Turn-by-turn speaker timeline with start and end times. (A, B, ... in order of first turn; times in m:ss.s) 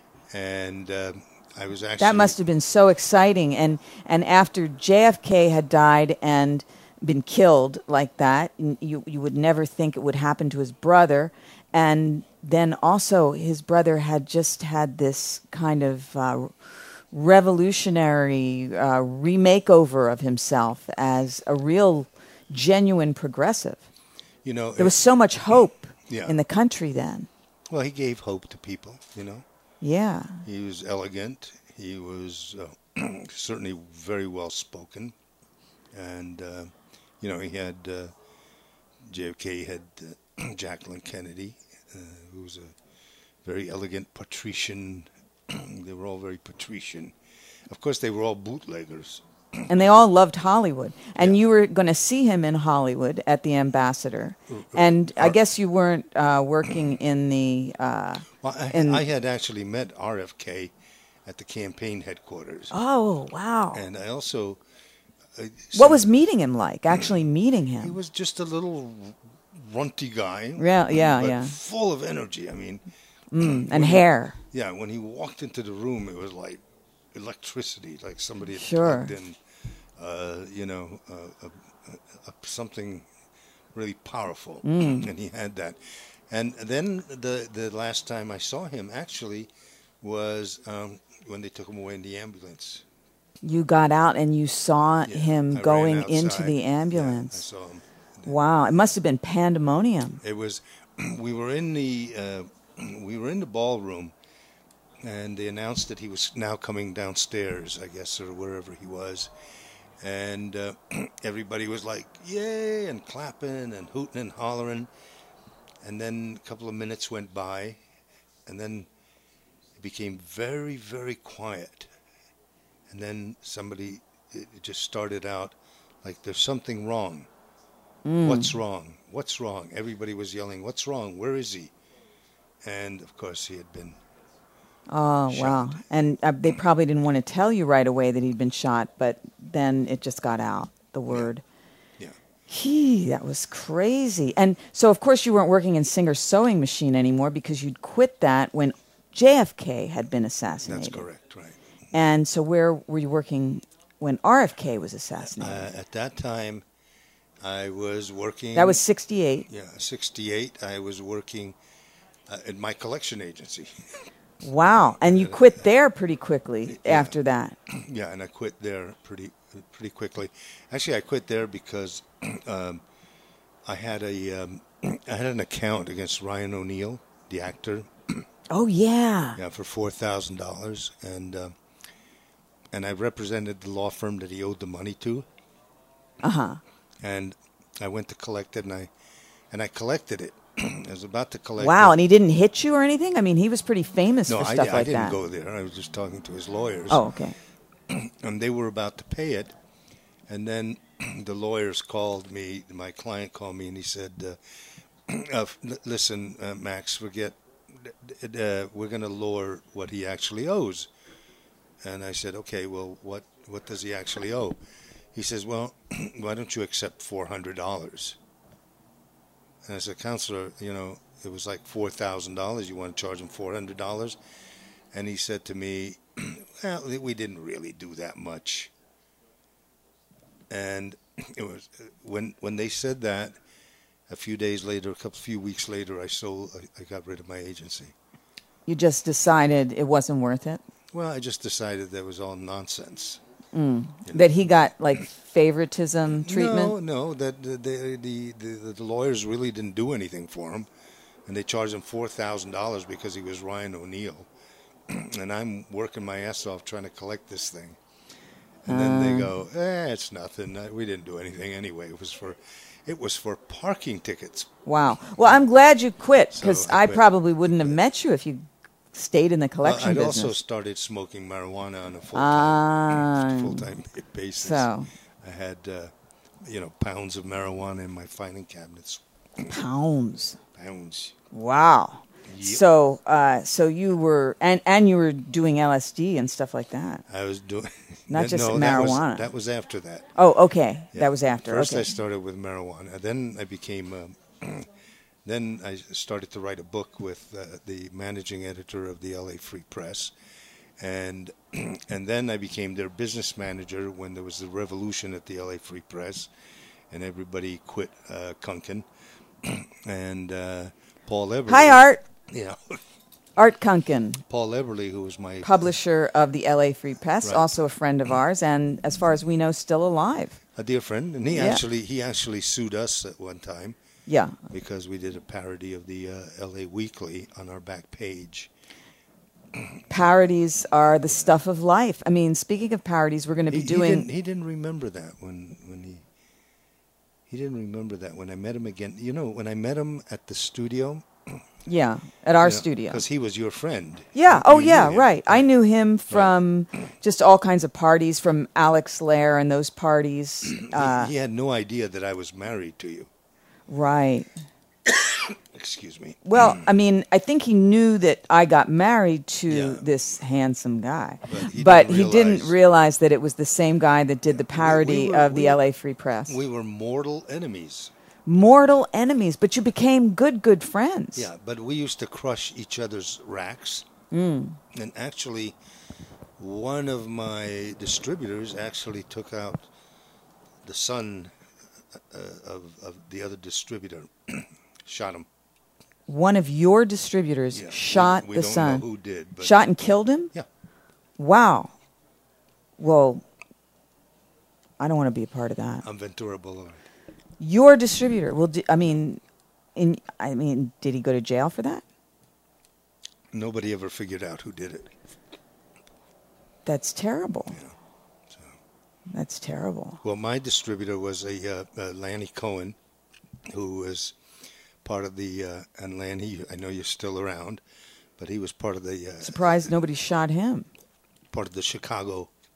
0:00.3-0:02.4 A
0:02.0-0:16.5 B
0:17.1-0:23.9 B
0:24.4-0:25.0 A
0:24.8-0:27.3 B
0:26.1-0:26.4 A
0:27.7-0:29.4 A
0:29.8-0:30.4 B
0:30.4-0:35.2 A
0:35.9-0:38.1 A
0:39.1-0:42.8 A
0:43.4-0:47.2 A
0:47.7-0:49.2 A
0:49.7-0:59.0 B
0:54.5-0:55.4 A
0:58.4-1:00.7 A
1:01.3-1:02.7 A
1:02.7-1:03.8 B
1:03.7-1:04.6 A
1:05.4-1:06.1 A
1:05.7-1:08.0 B
1:07.8-1:12.8 A
1:10.6-1:11.6 B
1:13.3-1:14.4 B
1:13.4-1:16.6 A
1:17.1-1:19.4 A
1:18.5-1:19.1 B
1:20.0-1:23.1 A
1:23.7-1:32.8 A
1:24.6-1:25.1 B
1:33.4-1:37.4 B
1:35.1-1:38.4 A
1:38.2-1:40.2 B
1:40.2-1:44.1 A
1:45.0-1:49.3 A
1:50.0-1:54.9 A
1:55.8-1:57.8 A
1:58.5-1:58.9 A
1:59.8-2:01.9 A
2:02.9-2:07.3 A
2:08.0-2:08.6 B
2:08.2-2:11.7 A
2:12.6-2:14.0 A
2:14.9-2:21.4 B
2:15.3-2:15.8 A
2:22.5-2:31.1 B
2:30.6-2:31.6 A
2:31.9-2:35.7 B
2:35.3-2:36.6 A
2:37.4-2:38.8 A
2:38.6-2:39.5 B
2:39.5-2:41.6 A
2:42.3-2:44.0 A
2:44.4-2:47.6 B
2:45.0-2:45.5 A
2:46.7-2:47.2 A
2:47.7-2:52.8 A
2:53.6-2:58.3 A
2:58.5-2:59.4 B
2:59.4-3:01.6 A
3:02.7-3:05.3 A
3:06.2-3:06.6 B
3:07.0-3:08.9 A
3:09.5-3:12.0 A
3:11.6-3:15.2 B
3:14.3-3:17.1 A
3:16.9-3:17.4 B
3:17.9-3:19.6 A
3:20.3-3:24.4 A
3:25.1-3:30.9 A
3:31.8-3:34.6 A
3:35.1-3:38.2 A
3:39.6-3:44.2 A
3:44.9-3:48.7 A
3:50.5-3:53.4 A
3:54.1-3:57.9 A
3:58.7-4:00.6 B
4:00.9-4:03.2 A
4:03.5-4:06.8 B
4:04.1-4:04.4 A
4:06.1-4:10.7 A
4:11.3-4:14.3 A
4:14.9-4:17.8 A
4:18.6-4:24.5 A
4:18.7-4:19.3 B
4:24.7-4:30.4 B
4:26.3-4:27.8 A
4:29.6-4:34.7 A
4:32.2-4:33.7 B
4:34.4-4:34.9 B
4:35.2-4:35.9 A
4:36.4-4:39.0 A
4:39.5-4:40.4 B
4:40.5-4:41.2 A
4:41.3-4:47.0 B
4:42.3-4:42.7 A
4:47.1-4:50.1 A
4:48.1-4:49.3 B
4:50.2-4:52.0 B
4:50.9-4:54.7 A
4:55.2-5:00.1 A
5:00.8-5:06.3 A
5:06.9-5:08.9 A
5:09.4-5:12.8 A
5:11.5-5:12.0 B
5:13.4-5:14.2 B
5:14.3-5:15.7 A
5:15.4-5:20.4 B
5:17.2-5:17.5 A
5:20.6-5:23.8 A
5:21.3-5:21.6 B
5:24.1-5:24.4 B
5:24.5-5:28.5 A
5:29.9-5:34.1 B
5:33.5-5:36.0 A
5:37.3-5:41.1 A
5:41.7-5:43.0 B
5:42.4-5:45.5 A
5:44.1-5:51.1 B
5:50.5-5:53.1 A
5:53.7-5:54.3 B
5:54.9-5:56.7 A
5:56.2-6:06.4 B
5:59.5-5:59.9 A
6:01.3-6:02.6 A
6:04.3-6:05.6 A
6:06.3-6:07.9 A
6:08.3-6:11.3 B
6:11.2-6:13.9 A
6:14.1-6:14.6 B
6:14.7-6:15.6 A
6:16.4-6:19.7 A
6:20.6-6:21.3 A
6:22.1-6:25.3 A
6:26.1-6:28.8 B
6:27.5-6:29.6 A
6:29.4-6:30.3 B
6:31.2-6:31.8 B
6:32.8-6:33.2 B
6:34.8-6:35.8 B
6:35.8-6:36.8 A
6:37.4-6:39.2 B
6:39.8-6:41.8 B
6:43.3-6:44.9 A
6:46.7-6:47.6 B
6:49.1-6:50.0 B
6:50.0-6:52.8 A
6:53.5-6:54.2 A
6:54.8-6:57.6 A
6:58.2-6:59.7 A
6:59.2-7:00.7 B
7:01.3-7:02.3 A